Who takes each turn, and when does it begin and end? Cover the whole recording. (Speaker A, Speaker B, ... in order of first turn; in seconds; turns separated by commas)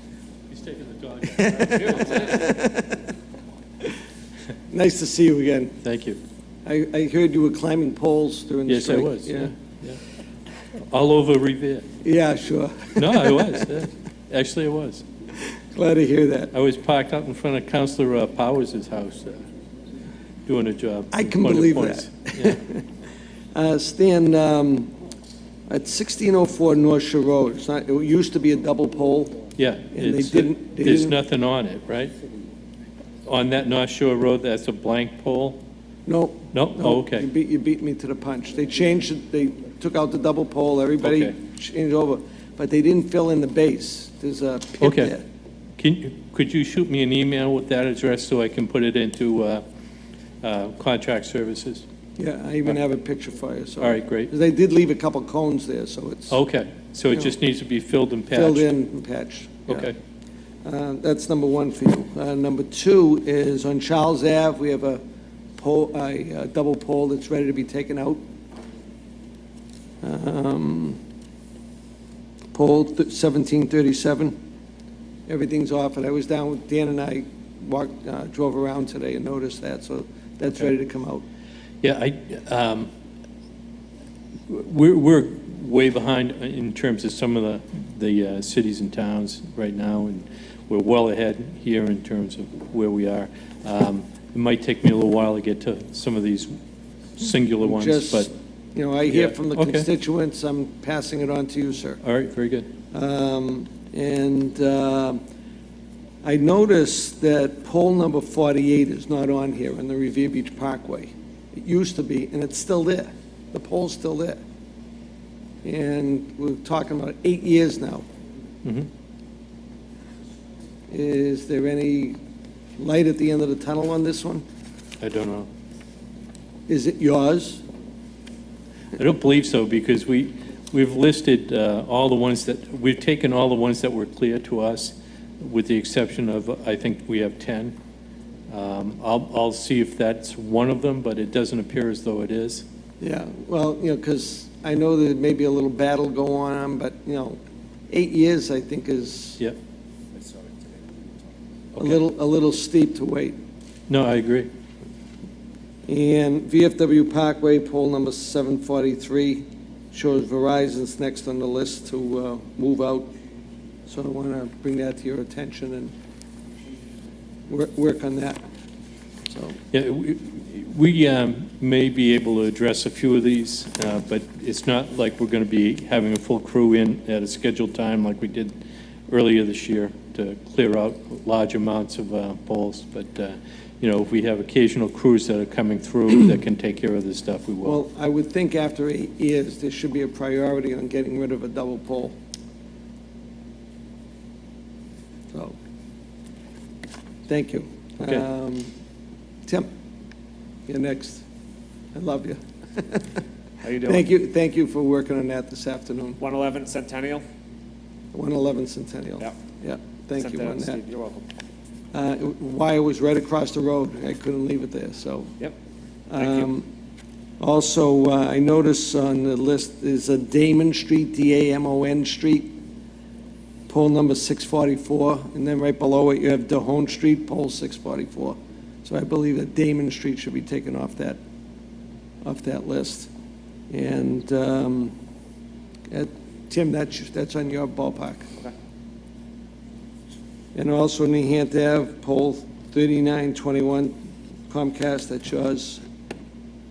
Speaker A: 0.5-2.5, Speaker B: 1.4-3.0, Speaker B: 4.7-5.8, Speaker A: 5.8-6.2, Speaker B: 6.6-9.5, Speaker A: 8.7-10.0, Speaker A: 10.9-11.9, Speaker B: 12.0-13.6, Speaker A: 13.0-15.0, Speaker B: 15.7-16.5, Speaker A: 16.5-19.4, Speaker A: 20.5-22.6, Speaker B: 21.1-22.8, Speaker B: 23.5-24.9, Speaker B: 25.7-29.4, Speaker A: 29.6-32.1, Speaker B: 29.9-31.2, Speaker A: 33.3-35.6, Speaker B: 36.0-45.2, Speaker A: 36.5-37.3, Speaker A: 41.0-41.3, Speaker A: 44.8-45.1, Speaker A: 45.8-49.6, Speaker A: 50.4-51.8, Speaker B: 52.2-56.4, Speaker A: 53.8-54.3, Speaker A: 56.3-58.7, Speaker B: 58.3-59.9, Speaker A: 59.7-60.0, Speaker B: 60.6-65.0, Speaker B: 65.6-68.2, Speaker B: 70.0-71.0, Speaker B: 72.5-74.3, Speaker B: 75.3-81.2, Speaker A: 81.8-82.9, Speaker A: 84.5-96.5, Speaker A: 97.2-98.3, Speaker B: 97.6-102.0, Speaker A: 99.1-99.9, Speaker A: 102.0-102.7, Speaker B: 102.9-105.2, Speaker B: 106.2-114.4, Speaker B: 115.6-118.0, Speaker B: 120.9-122.2, Speaker B: 122.8-124.4, Speaker A: 125.0-125.5, Speaker B: 126.7-127.6, Speaker A: 128.9-137.7, Speaker A: 138.5-142.6, Speaker B: 143.0-149.4, Speaker A: 151.8-152.0, Speaker B: 151.8-153.4, Speaker A: 153.9-154.5, Speaker B: 155.9-163.1, Speaker B: 163.9-165.9, Speaker B: 167.5-168.4, Speaker B: 169.3-169.6, Speaker A: 169.7-178.6, Speaker A: 179.1-187.8, Speaker B: 187.6-192.2, Speaker B: 197.3-198.7, Speaker B: 200.7-201.2, Speaker B: 201.9-203.2, Speaker C: 203.6-204.1, Speaker B: 203.8-206.2, Speaker C: 206.2-207.2, Speaker B: 208.1-210.8, Speaker C: 210.2-211.2, Speaker B: 211.9-215.3, Speaker B: 216.1-216.7, Speaker C: 216.2-216.5, Speaker B: 217.4-222.6, Speaker B: 223.7-231.2, Speaker B: 232.2-233.1, Speaker B: 233.7-234.9, Speaker B: 235.9-238.3, Speaker B: 240.5-243.9, Speaker B: 244.5-245.8